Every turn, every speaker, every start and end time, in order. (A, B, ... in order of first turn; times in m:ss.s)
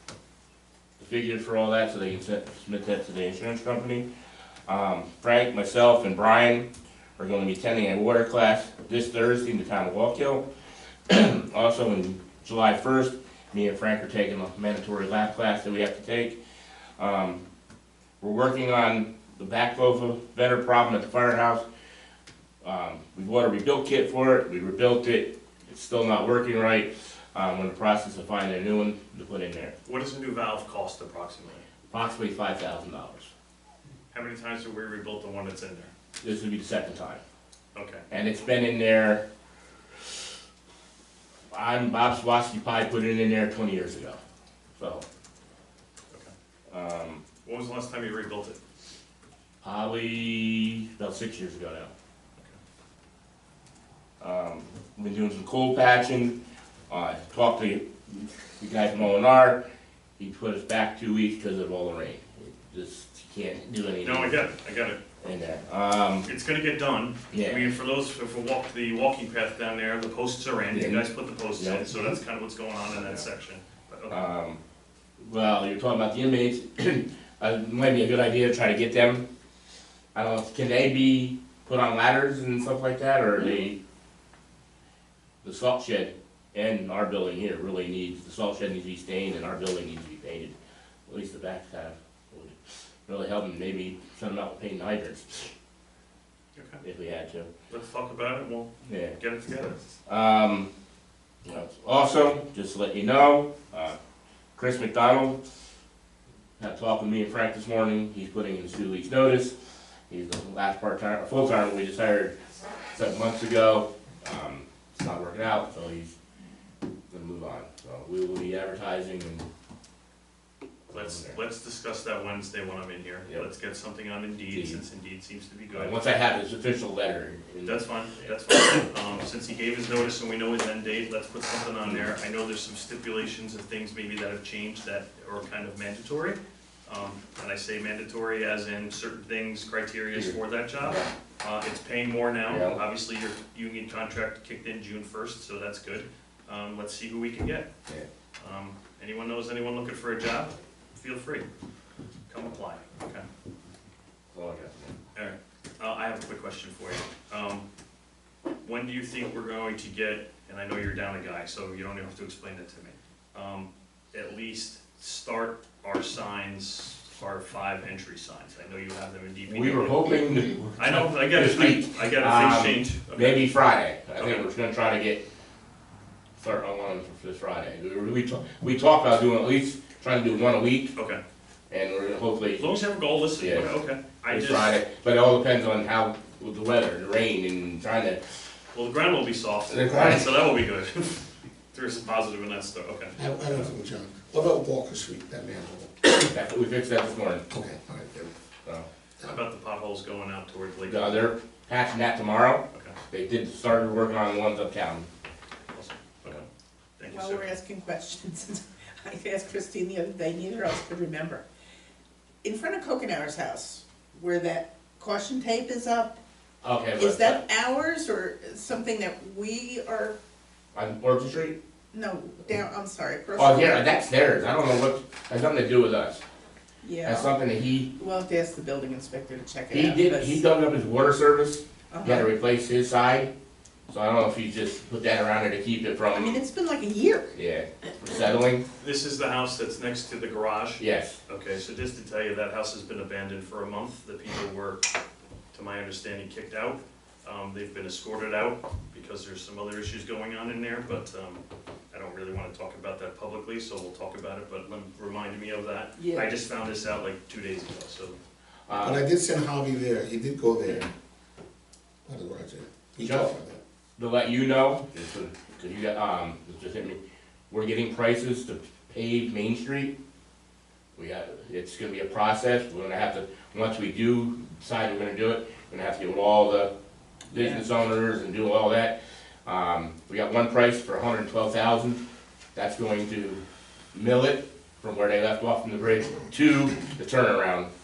0:01.0-0:04.1 A
0:04.7-0:10.4 A
0:11.1-0:16.4 A
0:17.0-0:17.4 A
0:18.2-0:21.6 A
0:22.6-0:29.7 A
0:29.8-0:31.6 B
0:31.9-0:33.3 A
0:34.1-0:35.9 B
0:36.2-0:37.2 A
0:37.7-0:38.0 B
0:38.1-0:39.2 A
0:41.5-0:44.2 A
0:44.8-0:45.0 A
0:46.7-0:47.2 A
0:47.4-0:48.6 B
0:49.6-0:51.9 A
0:54.2-0:56.4 A
0:56.9-0:59.6 A
1:00.2-1:04.4 A
1:04.0-1:05.0 B
1:05.2-1:06.3 A
1:06.2-1:14.2 B
1:07.3-1:07.6 A
1:10.7-1:11.0 A
1:11.6-1:12.2 A
1:12.9-1:13.2 A
1:14.1-1:14.6 A
1:15.2-1:19.2 A
1:20.1-1:23.8 A
1:25.4-1:30.5 A
1:31.1-1:35.5 A
1:36.6-1:36.8 B
1:36.8-1:37.5 A
1:37.7-1:39.8 B
1:38.8-1:39.2 A
1:40.0-1:40.7 A
1:41.4-1:44.0 A
1:44.6-1:45.4 A
1:46.6-1:49.5 A
1:50.1-1:52.3 A
1:52.9-1:56.1 A
1:57.1-1:59.4 A
2:00.9-2:06.0 B
2:00.9-2:01.4 A
2:04.5-2:04.8 A
2:05.7-2:08.3 A
2:07.6-2:27.7 B
2:20.1-2:21.1 A
2:22.4-2:22.8 A
2:28.4-2:31.5 B
2:32.3-2:33.3 B
2:34.3-2:34.9 A
2:35.1-2:37.6 B
2:38.6-2:50.1 B
2:49.5-2:55.2 A
2:50.8-2:53.5 B
2:54.2-2:54.4 B
2:56.4-3:00.9 A
3:00.9-3:01.2 B
3:01.7-3:03.7 A
3:02.6-3:04.7 B
3:04.3-3:08.2 A
3:08.7-3:13.2 B
3:09.7-3:10.2 A
3:13.2-3:16.0 C
3:16.1-3:17.4 A
3:17.5-3:18.3 C
3:19.2-3:21.3 B
3:20.8-3:25.1 A
3:22.7-3:23.0 B
3:25.7-3:26.5 B
3:27.0-3:27.6 B
3:27.1-3:31.4 D
3:32.4-3:36.2 D
3:36.6-3:37.4 A
3:37.0-3:40.2 D
3:40.7-3:41.6 A
3:41.9-3:44.0 D
3:43.4-3:46.2 A
3:46.8-3:47.3 D
3:47.0-3:47.9 A
3:47.9-3:50.4 D
3:49.7-3:53.3 A
3:51.9-3:52.3 D
3:53.9-3:56.4 A
3:56.1-3:57.3 D
3:57.3-3:58.6 A
3:58.8-4:04.9 B
4:00.8-4:01.2 A
4:05.5-4:18.2 B
4:16.0-4:16.2 D
4:18.7-4:19.0 A
4:18.8-4:20.9 C
4:22.0-4:23.6 C
4:23.0-4:23.3 A
4:24.0-4:27.0 A
4:27.5-4:29.9 A
4:31.0-4:36.7 A
4:37.3-4:42.0 A
4:42.5-4:43.4 A
4:43.9-4:47.7 A